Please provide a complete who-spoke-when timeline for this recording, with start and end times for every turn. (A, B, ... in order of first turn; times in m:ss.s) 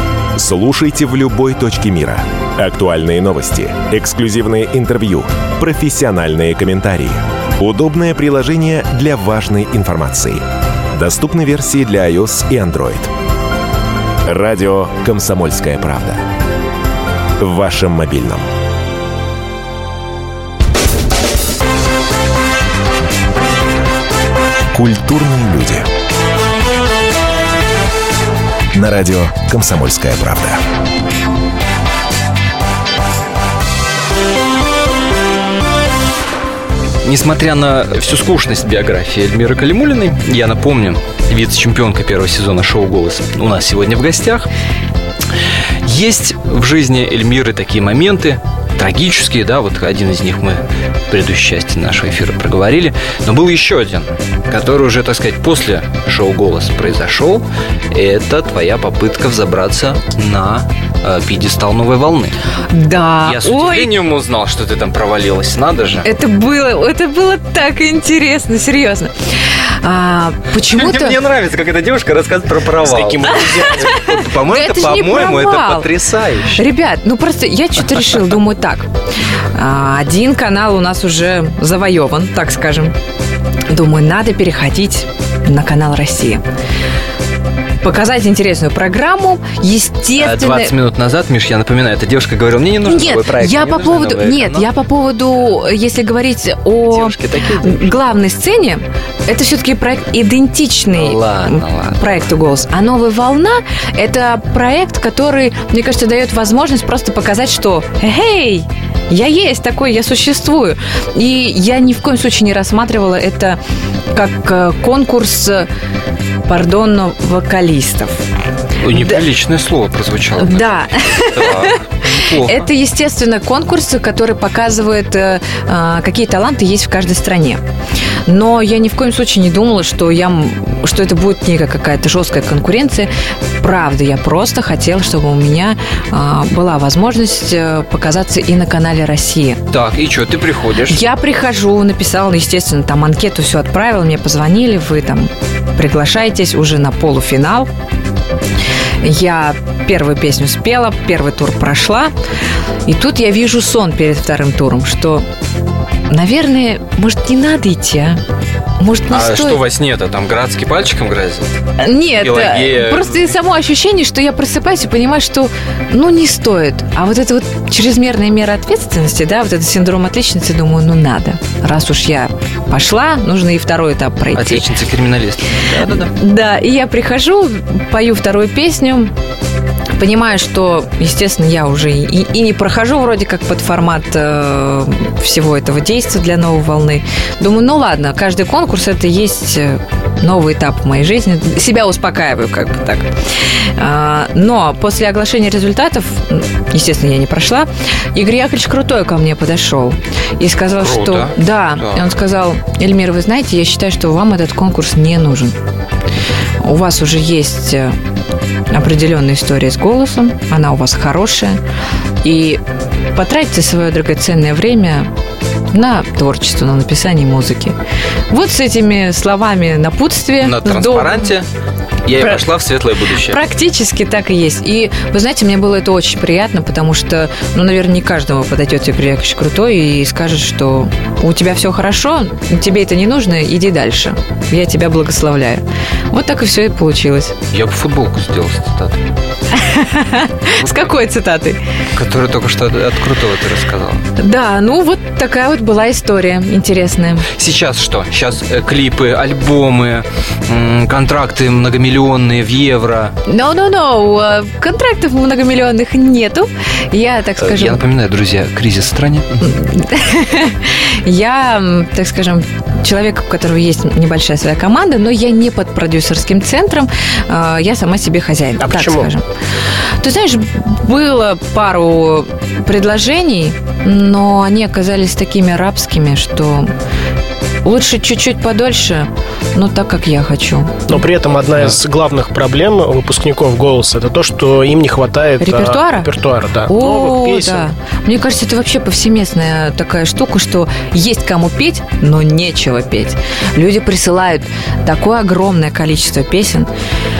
0:00.4-0:13.1 A
0:14.2-0:16.2 A
0:17.4-0:18.5 A
0:24.7-0:25.9 A
0:28.7-0:30.6 A
0:37.0-0:44.5 B
0:45.8-1:02.4 B
1:02.7-1:04.0 C
1:03.2-1:06.1 B
1:06.0-1:11.2 C
1:10.6-1:16.6 B
1:12.8-1:13.9 D
1:13.3-1:15.9 C
1:16.5-1:18.9 C
1:19.6-1:23.0 C
1:23.7-1:26.4 C
1:27.8-1:30.7 C
1:30.2-1:34.7 B
1:32.8-1:53.6 C
1:36.9-1:38.0 B
1:40.9-1:42.3 B
1:54.1-1:55.7 C
1:56.4-1:58.2 C
1:58.8-2:02.6 B
1:58.9-1:59.2 C
2:00.4-2:01.8 C
2:02.4-2:07.6 C
2:08.2-2:19.6 C
2:19.7-2:21.0 B
2:20.9-2:27.7 C
2:29.0-2:32.1 C
2:32.9-2:35.2 C
2:36.1-2:38.2 C
2:38.8-2:39.6 C
2:39.1-2:41.6 B
2:41.8-2:54.6 C
2:42.2-2:43.3 B
2:54.4-2:56.1 B
2:56.1-2:59.1 C
3:00.0-3:25.6 C
3:20.7-3:22.1 B
3:26.6-3:28.0 C
3:28.7-3:31.6 C
3:32.2-3:32.6 C
3:33.1-3:35.1 C
3:35.7-3:37.8 C
3:38.3-3:41.3 C
3:40.4-3:41.5 B
3:42.0-3:43.4 B
3:43.2-3:57.4 C
3:57.5-3:59.0 B
3:59.5-4:01.6 C
4:00.6-4:00.9 B
4:01.9-4:04.0 B
4:04.2-4:07.3 C
4:07.3-4:13.2 B
4:13.3-4:17.8 C
4:17.4-4:19.6 B
4:19.4-4:29.2 C
4:28.6-4:29.1 D
4:30.0-4:36.7 C
4:37.6-4:41.0 C
4:40.9-4:47.7 D
4:45.4-4:46.1 C
4:46.7-4:56.7 C